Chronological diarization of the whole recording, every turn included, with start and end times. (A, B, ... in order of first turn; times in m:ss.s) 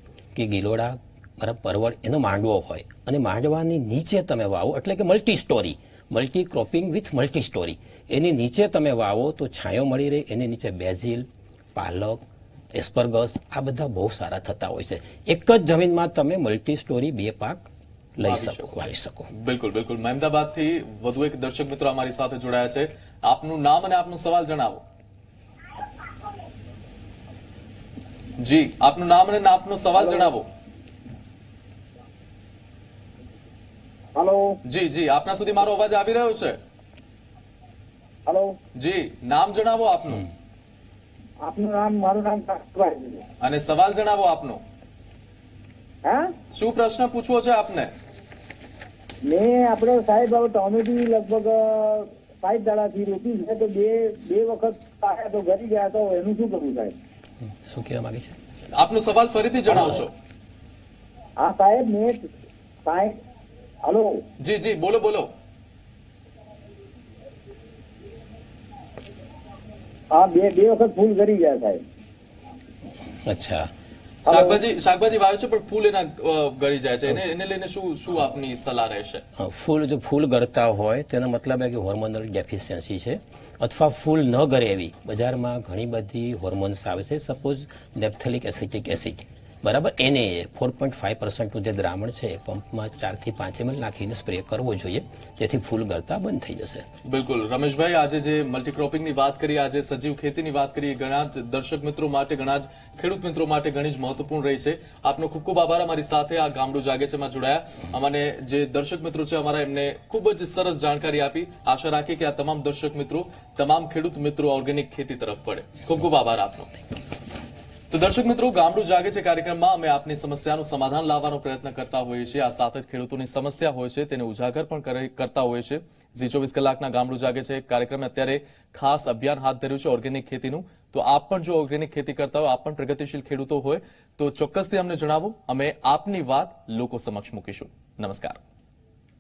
0:00.3-0:19.3 A
0:18.2-0:18.7 B
0:19.3-0:24.8 B
0:28.4-0:30.5 B
0:30.0-0:30.3 C
0:34.2-0:34.5 C
0:34.6-0:36.6 B
0:38.3-0:38.6 C
0:38.8-0:40.3 B
0:41.4-0:43.2 C
0:43.4-0:44.6 B
0:46.0-0:46.3 C
0:46.5-0:47.9 B
0:49.3-0:56.9 C
0:57.4-0:58.4 A
0:58.8-1:00.1 B
1:01.4-1:02.3 C
1:02.8-1:03.2 C
1:03.8-1:04.2 C
1:04.4-1:05.3 B
1:10.1-1:11.8 C
1:13.1-1:13.7 A
1:14.3-1:19.2 B
1:14.3-1:14.6 C
1:19.4-1:36.8 A
1:37.0-1:56.7 B
1:57.9-2:18.4 B